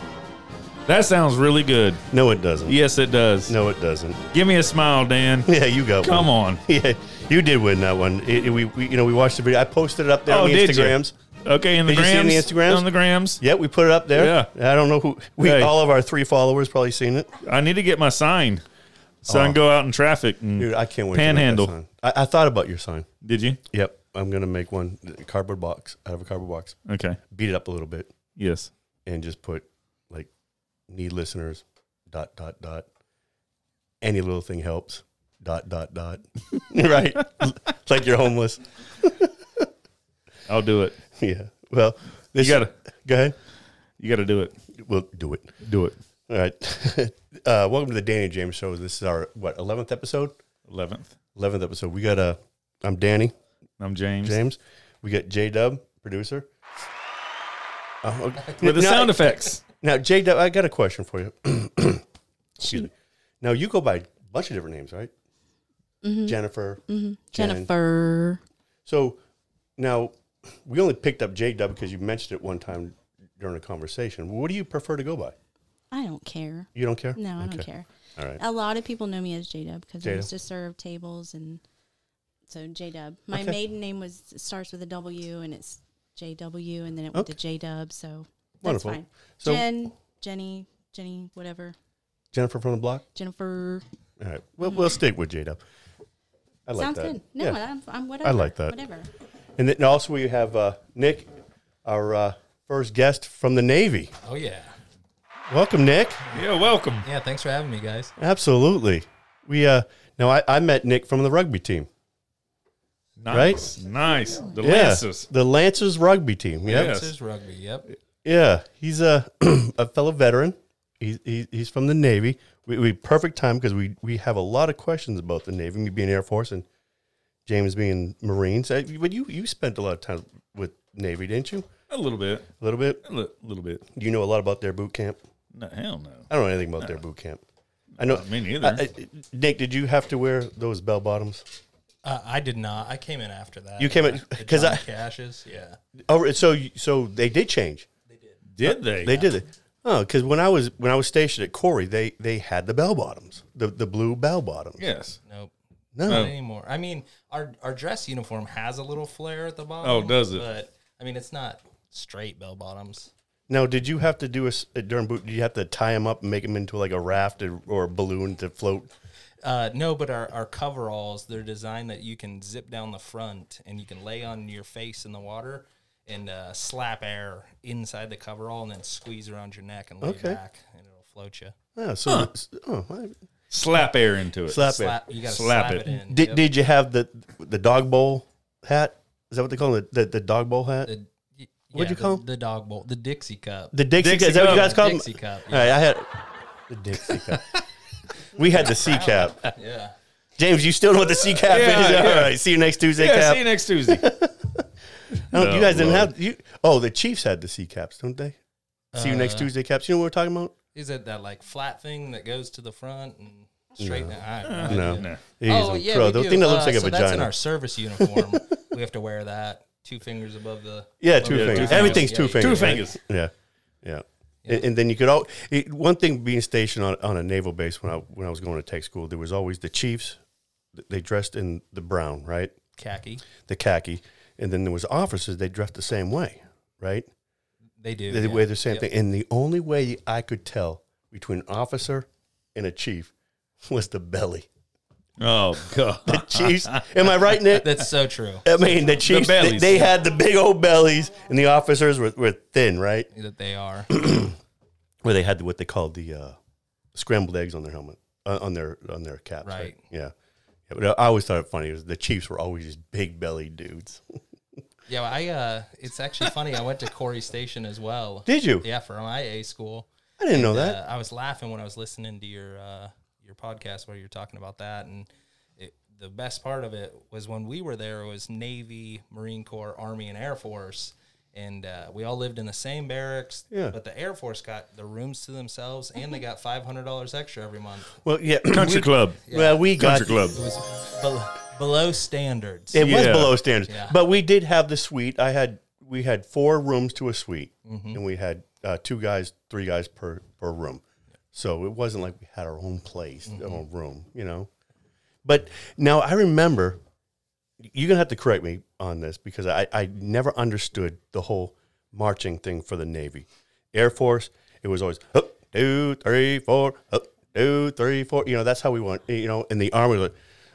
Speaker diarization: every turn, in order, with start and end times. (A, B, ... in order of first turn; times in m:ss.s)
0:00.9-0:02.0 A
0:02.1-0:02.8 B
0:02.7-0:03.6 A
0:03.5-0:04.2 B
0:04.3-0:05.5 A
0:05.5-0:11.1 B
0:06.0-0:06.6 A
0:10.3-0:13.4 A
0:11.9-0:12.9 B
0:13.4-0:17.3 B
0:14.2-0:14.5 A
0:15.4-0:15.7 A
0:17.4-0:18.6 A
0:19.2-0:21.7 A
0:19.3-0:19.6 B
0:20.6-0:23.1 B
0:23.2-0:23.6 A
0:23.7-0:26.8 B
0:26.9-0:27.2 A
0:27.3-0:28.1 B
0:28.4-0:28.7 A
0:29.1-0:30.3 B
0:30.9-0:32.9 B
0:34.0-0:39.7 B
0:40.5-0:41.0 A
0:41.2-0:43.4 B
0:42.4-0:42.7 A
0:44.0-0:44.6 A
0:44.8-0:45.6 B
0:45.6-0:46.0 A
0:46.3-0:50.4 B
0:50.7-0:51.2 A
0:51.4-0:53.4 B
0:53.8-0:54.4 A
0:54.2-0:56.5 B
0:58.0-0:59.2 B
0:58.4-0:58.7 C
0:58.6-0:59.6 A
0:59.7-1:02.0 B
1:02.6-1:05.1 B
1:02.6-1:02.9 D
1:06.0-1:06.4 D
1:06.2-1:07.7 B
1:06.9-1:08.4 D
1:08.9-1:09.2 B
1:09.8-1:15.4 B
1:15.9-1:21.6 D
1:16.8-1:18.4 B
1:20.0-1:20.3 B
1:22.5-1:31.8 D
1:28.6-1:29.6 B
1:32.3-1:33.0 B
1:33.2-1:33.8 D
1:34.2-1:35.6 B
1:36.7-1:37.6 B
1:36.8-1:39.1 D
1:38.2-1:38.8 B
1:39.6-1:41.3 B
1:41.8-1:44.1 B
1:44.2-1:44.8 C
1:45.5-1:46.2 B
1:46.3-1:47.1 A
1:47.0-1:48.1 C
1:48.2-1:51.9 B
1:53.2-1:55.3 A
1:53.3-1:53.7 B
1:54.6-1:56.9 B
1:56.6-1:57.9 C
1:56.7-1:57.1 A
1:58.2-2:06.7 B
2:07.5-2:11.7 B
2:11.9-2:12.5 A
2:12.6-2:13.0 B
2:13.0-2:13.8 A
2:13.9-2:15.2 B
2:15.5-2:17.0 A
2:16.3-2:17.4 B
2:18.0-2:18.9 A
2:18.0-2:21.4 B
2:22.0-2:25.8 C
2:23.8-2:24.8 B
2:26.0-2:27.9 B
2:28.1-2:28.4 C
2:28.5-2:29.3 A
2:28.6-2:34.9 B
2:34.8-2:35.2 A
2:35.3-2:35.5 C
2:36.0-2:36.3 B
2:36.0-2:43.1 C
2:36.1-2:36.4 A
2:39.8-2:40.4 A
2:43.5-2:48.9 B
2:49.4-3:01.6 C
3:00.0-3:00.4 B
3:01.8-3:03.2 B
3:03.5-3:04.7 A
3:04.5-3:05.0 B
3:04.5-3:06.4 C
3:05.2-3:06.0 A
3:06.1-3:10.9 B
3:10.8-3:15.8 C
3:11.7-3:12.2 B
3:13.7-3:16.1 B
3:14.0-3:14.8 A
3:16.7-3:17.4 B
3:18.3-3:19.4 B
3:18.5-3:20.0 C
3:20.4-3:24.7 B
3:21.3-3:22.4 A
3:23.0-3:24.1 A
3:25.1-3:26.1 A
3:25.3-3:28.4 B
3:28.9-3:29.5 C
3:29.0-3:30.5 B
3:30.7-3:42.9 C
3:33.8-3:37.3 B
3:34.4-3:35.2 A
3:38.0-3:38.5 B
3:41.0-3:50.2 B
3:41.3-3:43.0 A
3:50.7-3:52.5 B
3:52.8-3:53.2 C
3:53.4-3:57.1 B
3:57.8-3:58.9 C
3:58.1-4:03.1 B
4:03.6-4:04.5 B
4:05.2-4:07.1 A
4:06.0-4:07.8 B
4:07.5-4:08.6 C
4:08.4-4:13.1 B
4:09.0-4:09.9 A
4:13.1-4:13.9 C
4:13.9-4:14.4 B
4:15.0-4:16.4 B
4:16.9-4:20.1 B
4:19.4-4:19.8 C
4:20.7-4:24.2 B
4:24.9-4:47.9 C
4:28.3-4:28.7 B
4:30.2-4:30.8 B
4:43.5-4:43.8 B
4:48.0-4:50.4 B
4:48.5-4:49.2 A
4:49.3-4:49.7 C
4:49.8-4:50.4 A
4:50.3-4:52.8 C
4:52.7-5:04.5 B
4:52.8-4:53.4 A
4:53.7-4:54.0 C
4:57.7-4:58.0 C
5:03.2-5:03.6 C
5:05.2-5:06.8 B
5:07.6-5:20.1 B